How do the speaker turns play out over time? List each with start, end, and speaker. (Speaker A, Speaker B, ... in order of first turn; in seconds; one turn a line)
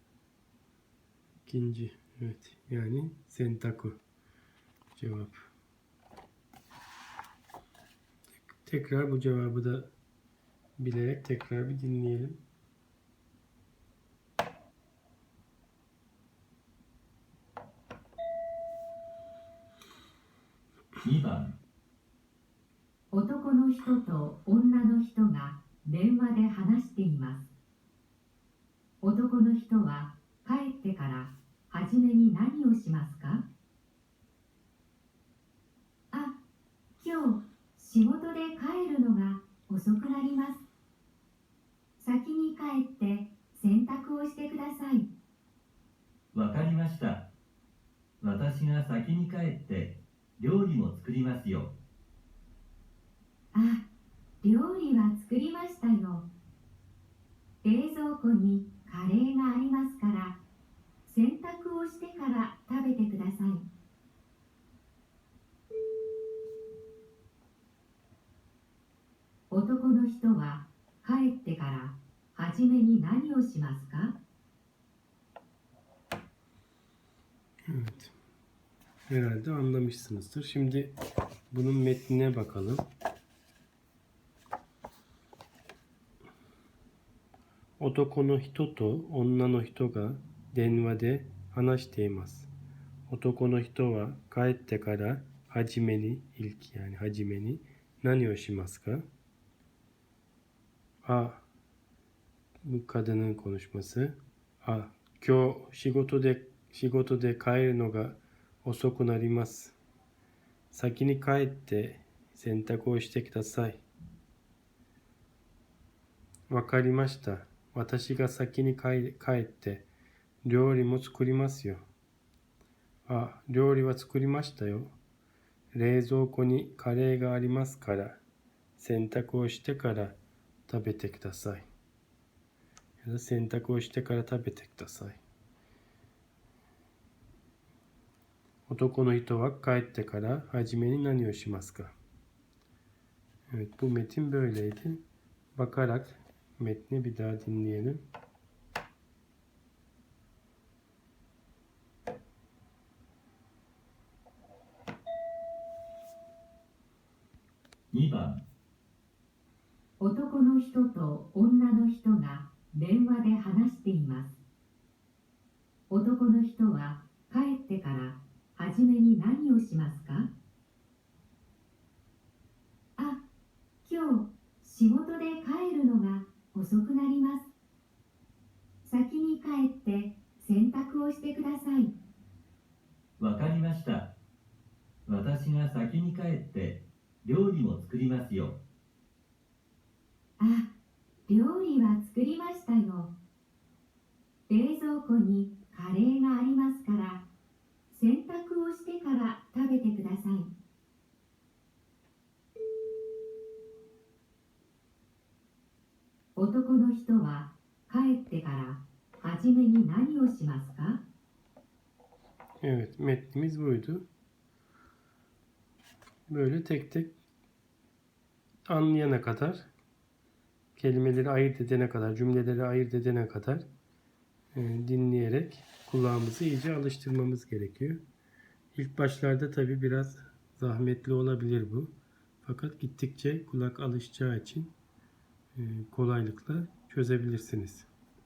Speaker A: 1.4-4.0
Speaker A: 4.9-5.3
Speaker A: 8.4-9.9
Speaker A: 10.8-12.4
Speaker B: 21.0-21.6
Speaker C: 23.1-27.5
Speaker C: 29.0-33.4
Speaker C: 36.1-36.4
Speaker C: 37.0-40.6
Speaker C: 42.0-45.1
Speaker B: 46.3-47.3
Speaker B: 48.2-51.7
Speaker C: 53.5-53.8
Speaker C: 54.4-56.3
Speaker C: 57.6-60.4
Speaker C: 61.0-63.6
Speaker C: 69.5-74.2
Speaker A: 77.7-78.1
Speaker A: 79.1-81.0
Speaker A: 81.5-82.8
Speaker A: 87.8-92.5
Speaker A: 93.1-99.0
Speaker A: 101.0-101.4
Speaker A: 102.6-109.8
Speaker A: 110.7-113.8
Speaker A: 116.5-119.8
Speaker A: 120.4-121.8
Speaker A: 123.1-124.9
Speaker A: 125.7-128.2
Speaker A: 128.8-130.2
Speaker A: 130.7-131.7
Speaker A: 133.0-135.2
Speaker A: 138.7-141.9
Speaker A: 143.5-145.0
Speaker A: 145.6-148.0
Speaker B: 157.9-158.4
Speaker C: 160.0-164.3
Speaker C: 165.9-170.3
Speaker C: 173.0-173.2
Speaker C: 173.8-177.5
Speaker C: 178.8-181.9
Speaker B: 183.2-184.1
Speaker B: 185.1-188.6
Speaker C: 190.4-190.7
Speaker C: 191.3-193.1
Speaker C: 194.5-197.2
Speaker C: 197.9-200.5
Speaker C: 206.3-211.0
Speaker A: 212.6-214.1
Speaker A: 216.3-217.1
Speaker A: 218.7-219.7
Speaker A: 220.8-223.7
Speaker A: 224.5-228.0
Speaker A: 228.7-231.9
Speaker A: 232.4-234.7
Speaker A: 235.6-237.9